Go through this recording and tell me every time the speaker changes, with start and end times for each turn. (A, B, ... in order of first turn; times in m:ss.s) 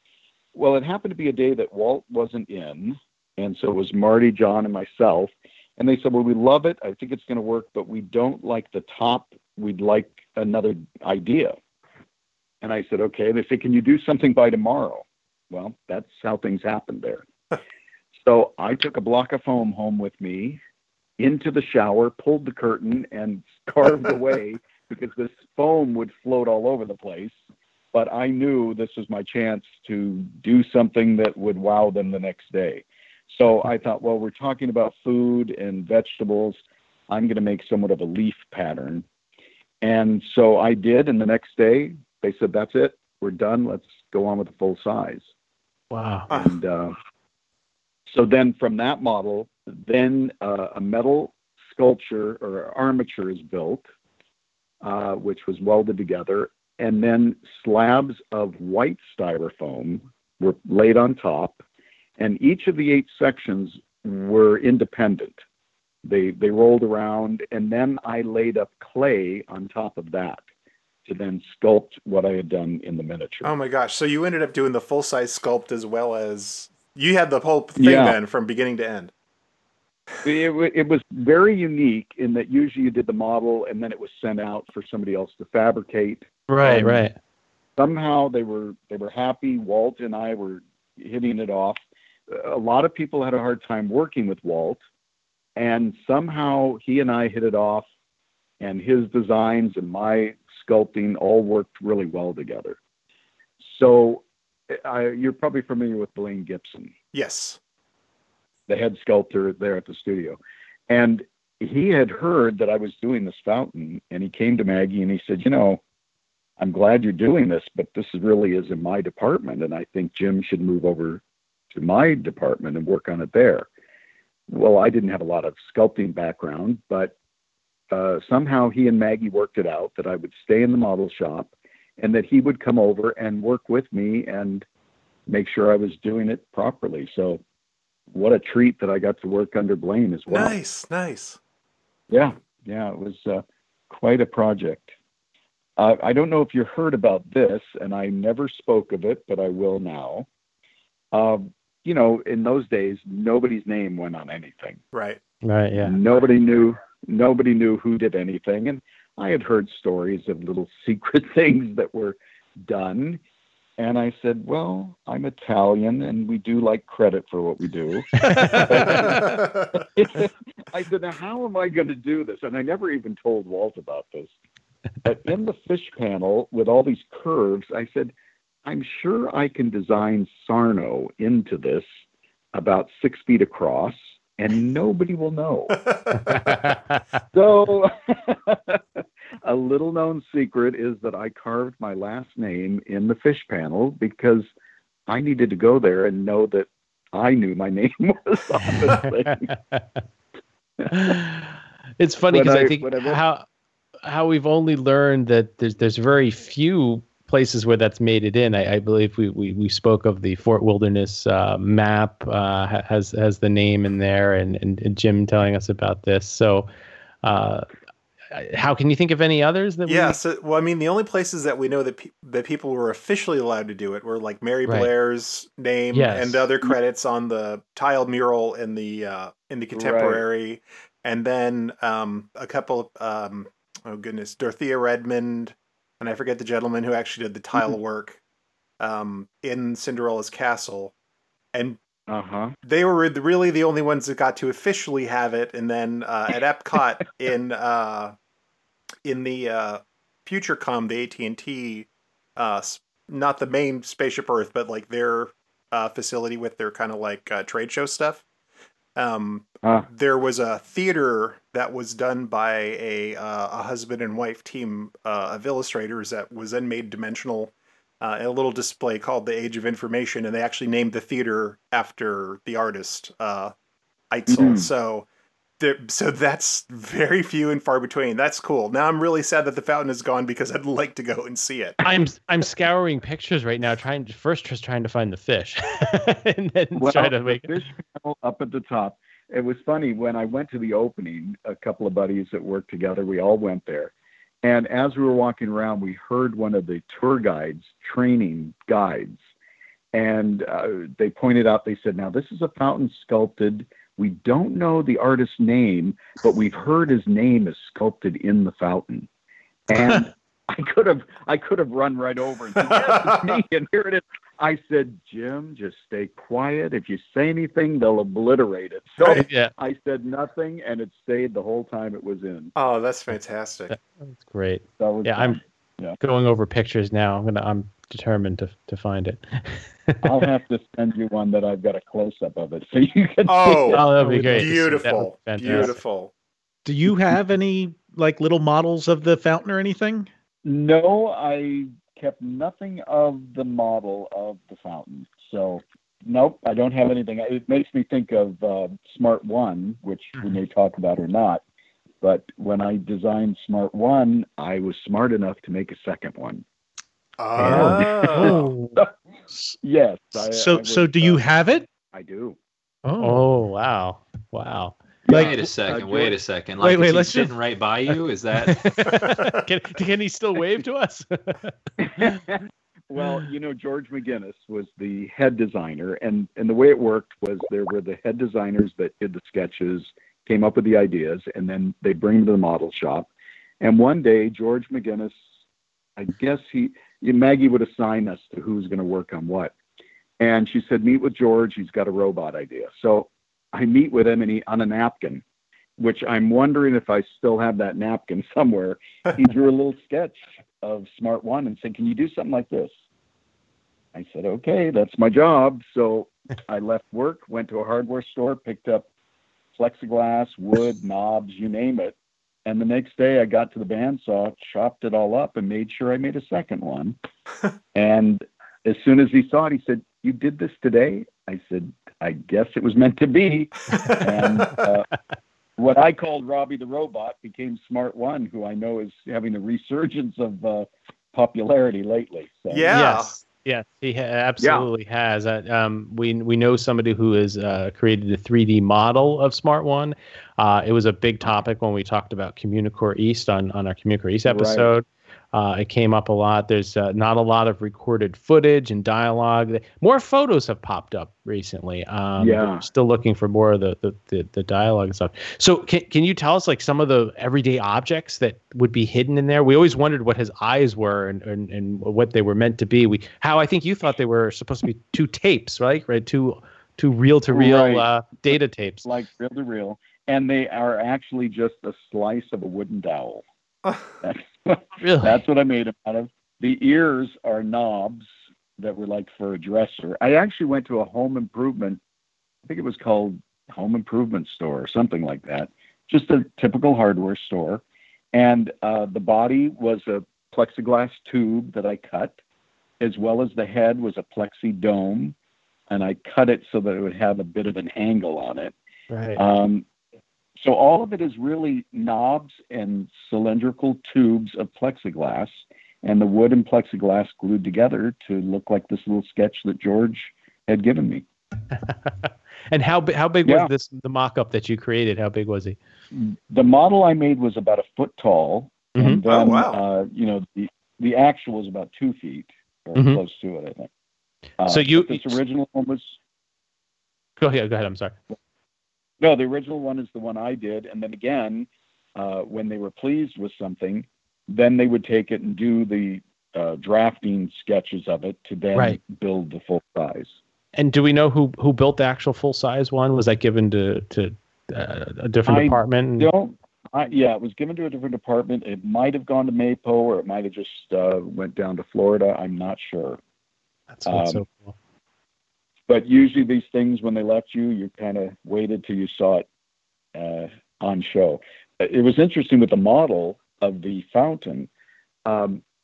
0:00.5-0:11.6 A
0:12.6-0:17.2 A
0:18.1-0:20.6 A
0:21.2-0:27.3 A
0:27.9-0:39.0 A
0:39.8-0:45.3 A
0:45.9-0:46.3 B
0:46.3-0:47.0 A
0:48.1-0:53.9 A
0:54.8-1:01.6 A
1:02.2-1:05.4 A
1:06.0-1:10.4 A
1:11.0-1:13.5 A
1:13.4-1:19.1 C
1:17.8-1:18.2 A
1:20.2-1:27.0 A
1:26.5-1:27.1 B
1:27.8-1:34.8 A
1:35.6-1:37.9 A
1:38.6-1:42.8 A
1:43.6-1:46.9 A
1:47.1-1:47.6 C
1:48.7-1:55.8 A
1:56.6-2:03.7 A
2:04.5-2:07.1 A
2:07.9-2:14.6 A
2:15.3-2:17.4 A
2:18.1-2:20.6 A
2:20.3-2:21.4 C
2:22.1-2:24.9 A
2:25.8-2:30.3 A
2:31.1-2:34.8 A
2:34.9-2:35.2 C
2:35.4-2:36.0 B
2:35.8-2:43.2 A
2:43.8-2:54.3 A
2:48.3-2:49.0 B
2:49.1-2:49.7 C
2:55.0-2:58.1 A
2:58.6-3:01.9 A
3:02.5-3:05.8 A
3:06.3-3:07.0 B
3:07.3-3:14.5 A
3:15.1-3:19.5 A
3:20.8-3:21.1 A
3:20.9-3:23.4 B
3:22.2-3:23.2 A
3:24.0-3:36.7 B
3:37.2-3:37.7 B
3:38.3-3:40.2 B
3:39.9-3:58.2 C
3:45.9-3:46.5 B
3:49.7-3:50.2 A
3:58.8-4:00.9 C
4:01.5-4:01.8 C
4:02.1-4:02.5 A
4:02.6-4:08.1 C
4:09.0-4:18.2 C
4:19.0-4:33.5 C
4:34.1-4:35.0 C
4:34.3-4:34.7 A
4:35.6-4:41.8 C
4:41.8-4:47.5 B
4:46.8-4:59.2 A
4:59.9-5:09.1 A
5:09.7-5:22.5 A
5:12.7-5:13.3 C
5:19.0-5:19.2 C
5:19.1-5:19.5 B
5:22.6-5:23.7 C
5:23.7-5:25.4 B
5:24.8-5:26.0 A
5:26.0-5:30.0 B
5:30.0-5:33.8 A
5:33.3-5:36.1 C
5:33.7-5:35.8 B
5:33.9-5:34.6 D
5:36.6-5:40.1 D
5:40.4-5:51.4 A
5:52.0-5:56.4 A
5:57.2-5:58.5 C
5:57.4-5:59.6 D
5:57.4-5:58.9 A
5:59.6-6:02.4 A
6:00.1-6:01.7 D
6:02.8-6:03.2 D
6:03.0-6:04.8 B
6:05.0-6:06.2 A
6:05.1-6:09.1 E
6:06.6-6:07.3 D
6:08.7-6:11.4 B
6:11.8-6:23.1 A
6:23.6-6:25.2 A
6:26.0-6:29.5 A
6:30.2-6:35.2 A
6:35.8-6:42.7 A
6:43.9-6:48.9 A
6:49.5-6:57.0 A
6:57.7-7:04.9 A
7:05.6-7:12.7 A
7:12.5-7:13.1 C
7:12.7-7:48.9 B
7:14.4-7:14.7 A
7:24.3-7:24.7 A
7:32.2-7:32.6 A
7:47.3-7:53.2 A
7:54.0-8:01.8 A
7:54.8-7:55.2 B
8:02.4-8:12.2 A
8:12.8-8:15.1 A
8:15.7-8:18.5 A
8:18.9-8:19.2 B
8:19.1-8:19.6 A
8:20.4-8:31.0 A
8:31.6-8:35.6 B
8:33.2-8:33.5 A
8:35.9-8:43.7 A
8:39.0-8:39.6 C
8:42.7-8:43.0 B
8:44.4-8:46.0 A
8:44.4-8:45.2 B
8:47.2-8:47.9 B
8:49.0-9:00.2 A
9:00.6-9:06.1 B
9:05.2-9:13.0 A
9:13.7-9:14.5 B
9:13.8-9:14.2 A
9:15.7-9:19.3 A
9:19.9-9:24.5 A
9:25.0-9:25.4 A